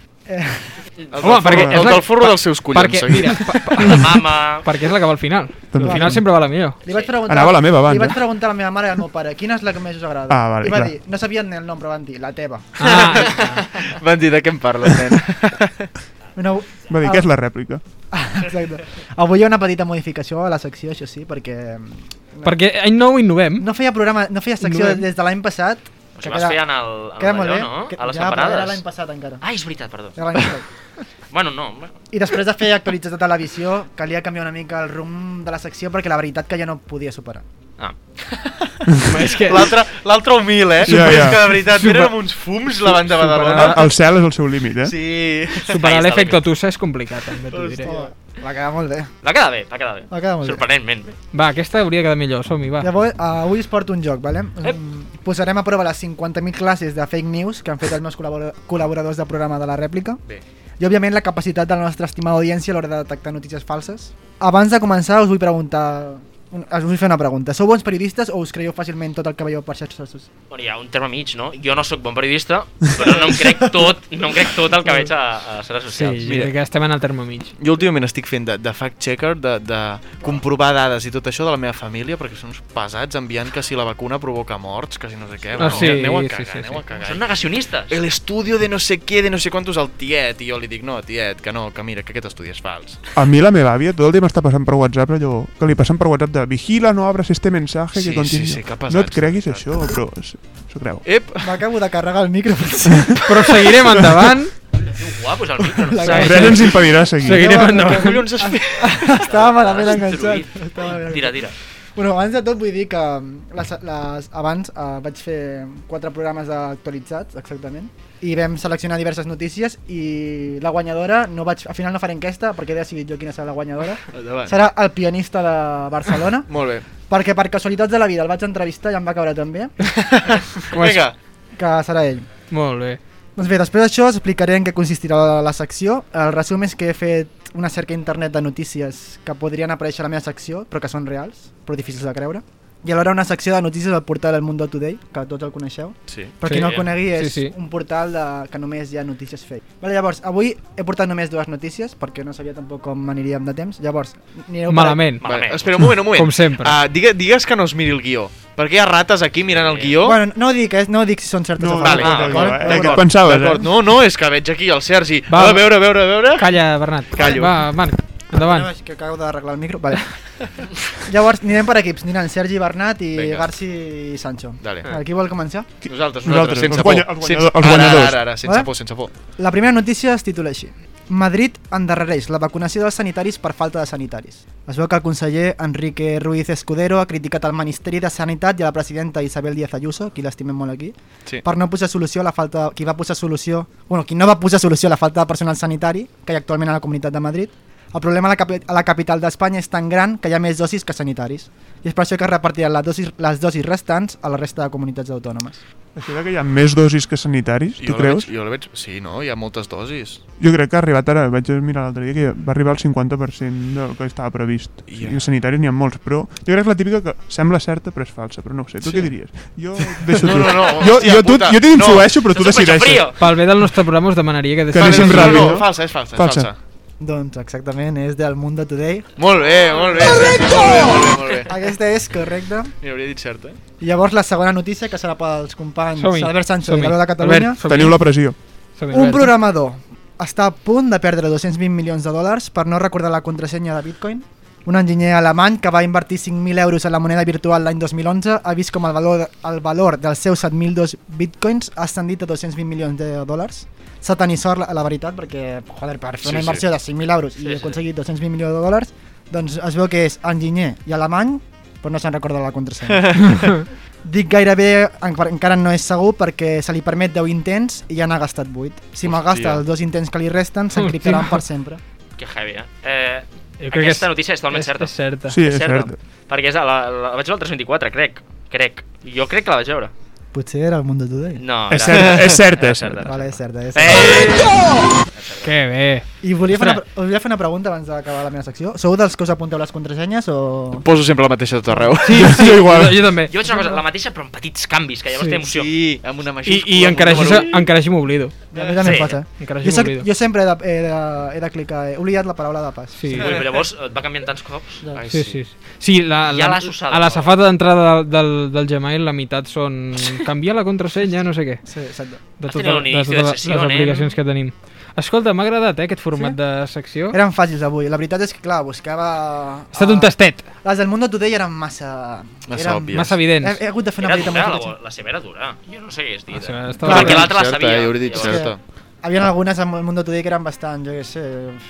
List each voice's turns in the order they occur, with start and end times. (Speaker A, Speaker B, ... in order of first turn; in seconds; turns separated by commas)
Speaker A: 0.3-0.8, Speaker B: 1.1-3.9, Speaker C: 1.2-6.8, Speaker D: 3.8-4.7, Speaker E: 5.7-6.3, Speaker A: 5.8-6.3, Speaker A: 6.8-12.7, Speaker E: 7.3-8.2, Speaker E: 10.3-10.9, Speaker C: 12.8-13.6, Speaker B: 12.8-15.9, Speaker A: 16.4-17.3, Speaker E: 16.9-17.8, Speaker A: 18.1-22.6, Speaker C: 22.4-23.7, Speaker A: 23.6-29.4, Speaker C: 24.6-25.1, Speaker D: 26.2-28.8, Speaker D: 29.4-30.2, Speaker A: 30.2-30.7, Speaker D: 31.3-31.9, Speaker A: 32.1-37.4, Speaker B: 38.3-43.9, Speaker C: 39.1-39.7, Speaker E: 40.8-41.6, Speaker C: 40.8-42.2, Speaker C: 42.8-43.9, Speaker E: 43.5-45.0, Speaker B: 44.8-45.8, Speaker C: 45.7-47.9, Speaker D: 45.8-46.4, Speaker B: 47.5-48.1, Speaker A: 47.9-49.1, Speaker D: 49.2-51.2, Speaker A: 50.1-50.6, Speaker C: 51.3-52.9, Speaker A: 52.8-60.2, Speaker A: 60.8-70.3, Speaker D: 70.5-76.3, Speaker C: 75.9-77.5, Speaker B: 76.2-76.5, Speaker B: 77.6-87.3, Speaker D: 85.6-86.0, Speaker C: 85.6-86.8, Speaker D: 87.0-88.0, Speaker B: 87.9-93.0, Speaker E: 93.2-101.0, Speaker B: 98.0-99.7, Speaker B: 101.0-101.5, Speaker A: 101.4-103.6, Speaker C: 103.2-104.5, Speaker D: 104.8-106.7, Speaker A: 105.6-129.8, Speaker E: 106.1-107.7, Speaker C: 106.1-108.3, Speaker B: 107.6-109.5, Speaker D: 109.2-111.5, Speaker B: 124.1-124.6, Speaker B: 126.5-126.9, Speaker B: 129.9-131.2, Speaker C: 130.7-131.1, Speaker A: 131.6-132.3, Speaker C: 132.5-133.0, Speaker A: 133.4-155.1, Speaker B: 146.1-146.4, Speaker C: 146.4-147.5, Speaker D: 146.5-146.8, Speaker C: 154.7-155.2, Speaker D: 155.2-155.8, Speaker B: 155.2-160.2, Speaker C: 156.0-156.8, Speaker D: 159.5-160.0, Speaker A: 160.0-163.1, Speaker E: 161.6-163.7, Speaker D: 161.8-163.1, Speaker B: 162.7-166.6, Speaker C: 165.3-168.7, Speaker B: 167.1-167.7, Speaker A: 168.3-170.2, Speaker A: 171.0-175.7, Speaker B: 173.1-173.5, Speaker B: 174.6-175.0, Speaker B: 175.8-179.1, Speaker E: 175.9-178.3, Speaker A: 178.4-178.7, Speaker A: 179.3-205.6, Speaker E: 205.9-208.3, Speaker B: 207.8-210.2, Speaker E: 210.4-223.1, Speaker B: 214.9-215.3, Speaker B: 218.9-219.1, Speaker B: 219.9-222.2, Speaker D: 222.3-223.2, Speaker C: 223.2-225.5, Speaker E: 224.7-226.5, Speaker B: 224.7-226.6, Speaker A: 227.0-229.1, Speaker B: 229.2-231.5, Speaker A: 231.5-232.8, Speaker B: 232.8-233.6, Speaker A: 233.8-237.9, Speaker C: 236.0-238.2, Speaker E: 237.7-238.4, Speaker C: 238.8-239.3, Speaker A: 238.9-263.5, Speaker B: 256.2-256.6, Speaker D: 257.4-257.8, Speaker B: 263.0-263.6, Speaker A: 264.0-271.8, Speaker B: 269.0-269.6, Speaker C: 270.7-271.4, Speaker D: 272.2-279.9, Speaker C: 273.6-275.4, Speaker E: 275.3-276.0, Speaker A: 280.3-281.4, Speaker D: 281.4-284.6, Speaker E: 281.7-283.1, Speaker B: 281.9-282.4, Speaker A: 283.1-284.5, Speaker D: 285.2-285.5, Speaker C: 285.4-286.8, Speaker A: 286.2-290.9, Speaker B: 290.8-292.4, Speaker A: 291.7-292.0, Speaker C: 292.0-293.3, Speaker E: 292.1-293.1, Speaker D: 293.3-295.7, Speaker A: 293.4-293.8, Speaker B: 295.4-297.7, Speaker C: 296.4-298.4, Speaker A: 298.5-303.4, Speaker D: 298.8-299.2, Speaker C: 299.3-300.1, Speaker C: 303.0-303.3, Speaker D: 303.2-305.3, Speaker B: 305.0-305.3, Speaker C: 305.1-311.6, Speaker D: 306.2-307.3, Speaker A: 311.6-312.2, Speaker C: 312.3-317.2, Speaker D: 312.4-314.1, Speaker A: 317.1-324.7, Speaker C: 319.7-320.5, Speaker B: 322.5-323.2, Speaker C: 322.9-323.6, Speaker D: 324.0-328.5, Speaker C: 326.3-327.3, Speaker A: 326.8-327.4, Speaker B: 326.8-328.6, Speaker A: 328.2-331.6